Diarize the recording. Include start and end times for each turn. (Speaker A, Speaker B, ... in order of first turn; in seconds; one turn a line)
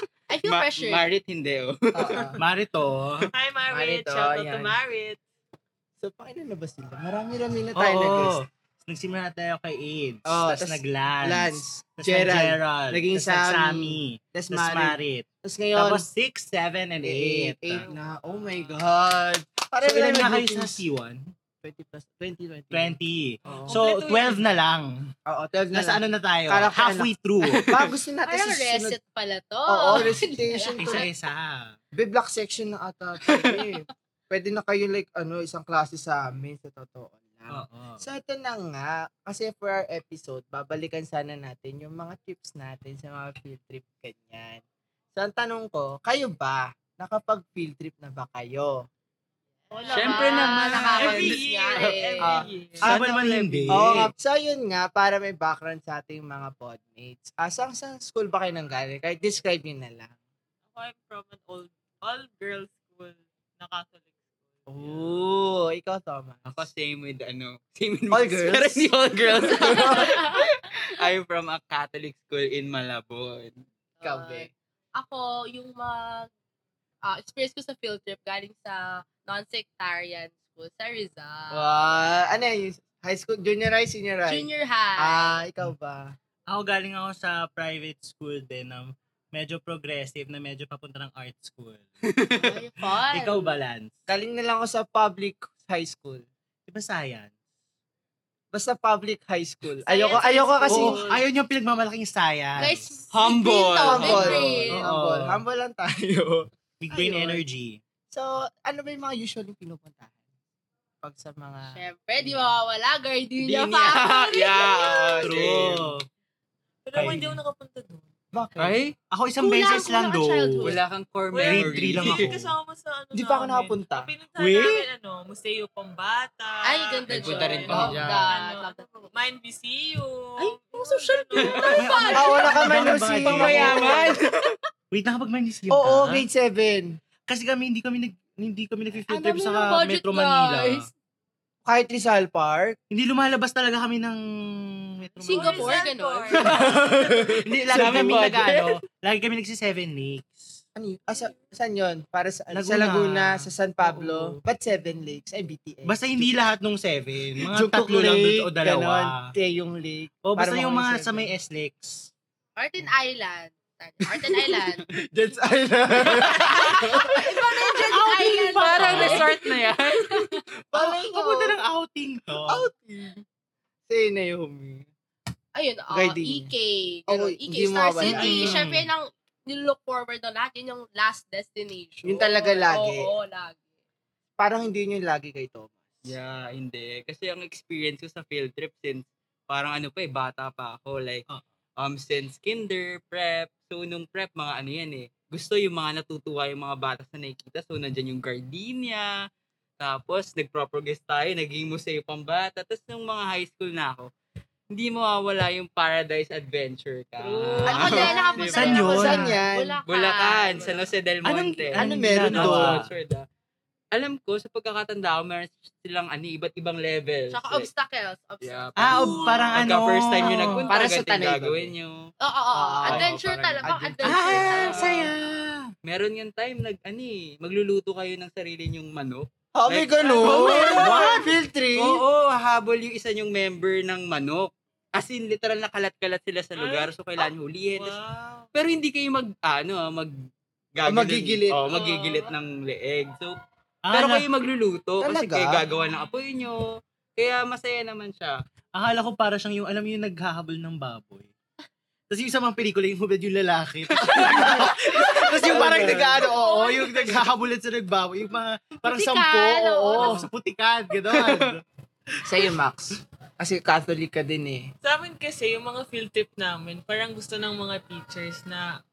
Speaker A: 0.3-1.1
Speaker B: 0.5-2.4
Speaker C: 1.9-2.4
Speaker D: 2.4-3.3
Speaker E: 3.3-5.2
Speaker C: 3.7-4.7
Speaker C: 6.0-8.4
Speaker D: 7.8-17.9
Speaker C: 10.3-16.0
Speaker C: 17.0-20.8
Speaker E: 17.8-18.8
Speaker D: 19.8-21.2
Speaker C: 21.6-23.8
Speaker D: 22.7-24.9
Speaker E: 23.5-24.4
Speaker C: 25.3-27.1
Speaker D: 25.7-27.7
Speaker B: 27.5-27.8
Speaker C: 27.7-29.0
Speaker A: 28.3-31.1
Speaker C: 29.7-31.1
Speaker D: 30.8-31.7
Speaker C: 31.9-44.6
Speaker D: 37.5-38.0
Speaker C: 45.1-48.8
Speaker A: 49.7-52.4
Speaker E: 49.7-52.9
Speaker B: 49.9-51.9
Speaker C: 52.2-52.5
Speaker B: 52.8-54.1
Speaker D: 52.8-53.9
Speaker C: 53.7-60.1
Speaker E: 60.6-65.1
Speaker C: 64.7-66.6
Speaker B: 66.5-73.5
Speaker C: 68.2-68.8
Speaker A: 69.5-70.5
Speaker C: 69.6-70.1
Speaker A: 74.0-76.3
Speaker C: 74.0-74.5
Speaker A: 77.0-81.9
Speaker C: 81.5-86.2
Speaker A: 84.3-85.4
Speaker D: 86.5-91.9
Speaker B: 92.1-92.5
Speaker A: 92.4-93.5
Speaker D: 93.1-94.0
Speaker C: 94.1-96.2
Speaker D: 96.7-97.3
Speaker C: 98.5-101.0
Speaker A: 99.8-101.2
Speaker D: 100.7-102.9
Speaker E: 100.7-101.0
Speaker A: 102.6-104.8
Speaker B: 103.1-104.6
Speaker C: 103.8-107.4
Speaker D: 104.3-105.4
Speaker D: 106.8-107.8
Speaker C: 108.1-110.1
Speaker C: 111.0-111.8
Speaker A: 111.7-115.2
Speaker B: 113.4-115.9
Speaker D: 115.2-116.0
Speaker E: 116.8-118.1
Speaker D: 116.9-117.4
Speaker C: 118.3-118.8
Speaker B: 118.6-118.9
Speaker D: 119.1-120.7
Speaker A: 119.4-120.8
Speaker B: 120.6-122.3
Speaker E: 121.3-132.3
Speaker D: 121.4-122.5
Speaker C: 123.1-124.1
Speaker D: 124.4-124.8
Speaker A: 126.6-129.1
Speaker B: 127.1-128.3
Speaker C: 127.7-128.0
Speaker A: 130.4-132.9
Speaker B: 131.4-132.2
Speaker D: 131.8-134.1
Speaker C: 132.2-134.1
Speaker B: 133.2-134.5
Speaker D: 134.9-136.2
Speaker C: 135.7-137.0
Speaker D: 137.3-140.9
Speaker A: 139.1-140.9
Speaker C: 141.6-142.8
Speaker D: 142.9-145.8
Speaker E: 145.2-147.4
Speaker A: 145.2-146.8
Speaker D: 146.4-150.6
Speaker B: 146.5-146.8
Speaker B: 147.6-148.8
Speaker C: 150.7-156.4
Speaker D: 152.5-154.4
Speaker D: 155.8-159.3
Speaker C: 157.4-161.3
Speaker D: 160.2-162.1
Speaker A: 162.6-164.8
Speaker C: 164.1-167.2
Speaker B: 166.2-167.0
Speaker A: 166.7-169.3
Speaker B: 167.8-170.4
Speaker C: 168.8-169.1
Speaker D: 168.8-169.2
Speaker A: 169.9-170.4
Speaker D: 170.7-172.7
Speaker C: 170.7-171.6
Speaker C: 172.5-173.2
Speaker C: 173.9-174.9
Speaker A: 175.5-183.6
Speaker C: 175.9-176.5
Speaker C: 177.1-178.6
Speaker D: 178.0-178.8
Speaker C: 182.0-183.1
Speaker C: 184.4-185.9
Speaker B: 186.0-191.2
Speaker B: 191.8-199.1
Speaker B: 199.8-204.1
Speaker B: 204.7-209.0
Speaker A: 207.3-210.9
Speaker E: 207.5-207.8
Speaker C: 207.7-209.8
Speaker D: 208.5-209.4
Speaker B: 209.8-213.2
Speaker D: 211.2-212.8
Speaker C: 211.8-212.8
Speaker B: 213.9-217.7
Speaker A: 217.3-219.5
Speaker B: 218.4-222.0
Speaker D: 218.8-220.7
Speaker E: 218.9-219.5
Speaker C: 220.7-221.7
Speaker A: 222.2-225.0
Speaker C: 222.6-223.1
Speaker B: 222.8-225.1
Speaker D: 224.0-225.7
Speaker B: 225.8-237.9
Speaker C: 229.5-232.0
Speaker E: 230.2-230.8
Speaker D: 230.8-231.2
Speaker E: 236.6-238.5
Speaker B: 238.5-240.1
Speaker B: 240.8-243.3
Speaker C: 240.8-241.6
Speaker A: 241.7-242.3
Speaker D: 243.8-244.3
Speaker B: 243.9-246.7
Speaker C: 245.0-245.6
Speaker E: 245.7-246.3
Speaker B: 247.2-248.3
Speaker D: 248.7-251.3
Speaker D: 252.1-261.6
Speaker B: 253.9-254.5
Speaker C: 254.1-256.3
Speaker B: 255.6-256.0
Speaker A: 256.2-257.2
Speaker A: 258.8-260.2
Speaker C: 259.9-260.2
Speaker B: 261.1-261.5
Speaker C: 262.2-264.7
Speaker E: 264.8-268.7